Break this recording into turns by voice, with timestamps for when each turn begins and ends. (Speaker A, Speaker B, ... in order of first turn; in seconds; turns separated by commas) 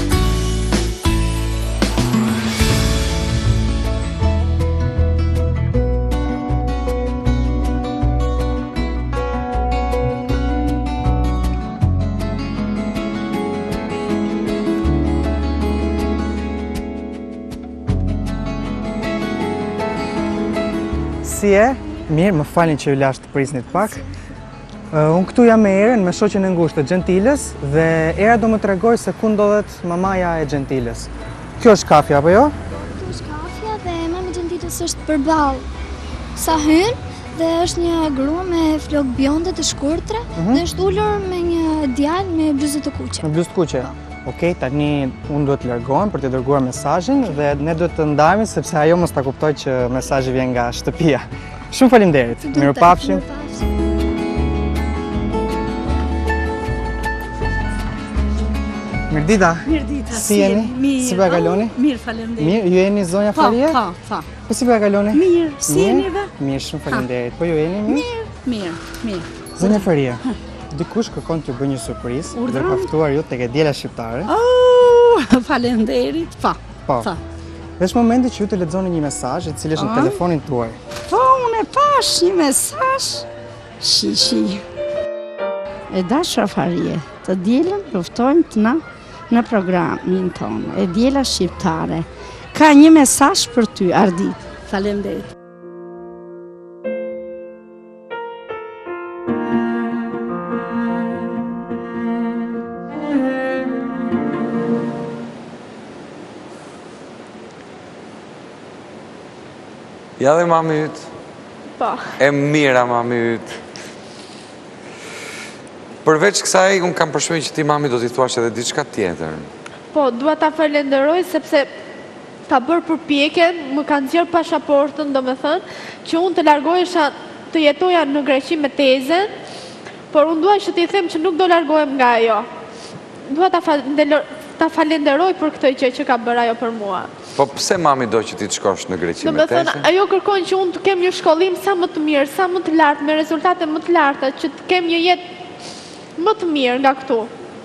Speaker A: 21.2-24.0, Speaker A: 24.9-31.1, Speaker A: 31.6-32.5, Speaker B: 33.0-35.6, Speaker B: 36.4-43.3, Speaker A: 40.4-40.6, Speaker A: 43.2-53.2, Speaker B: 52.5-53.6, Speaker A: 59.1-61.8, Speaker C: 59.7-62.7, Speaker A: 62.4-63.8, Speaker C: 63.3-64.3, Speaker A: 64.5-68.1, Speaker C: 65.1-66.3, Speaker C: 67.9-70.3, Speaker A: 69.6-74.3, Speaker C: 72.3-72.9, Speaker C: 74.3-77.2, Speaker A: 77.8-80.8, Speaker C: 79.8-80.2, Speaker C: 81.1-83.2, Speaker C: 83.8-84.6, Speaker C: 85.9-95.3, Speaker D: 110.2-111.1, Speaker E: 111.8-112.1, Speaker D: 112.2-113.6, Speaker D: 116.0-119.5, Speaker E: 119.9-121.7, Speaker E: 122.5-129.3, Speaker E: 130.1-132.5, Speaker E: 133.3-137.1, Speaker D: 137.3-139.9, Speaker E: 139.2-145.2, Speaker E: 146.2-147.3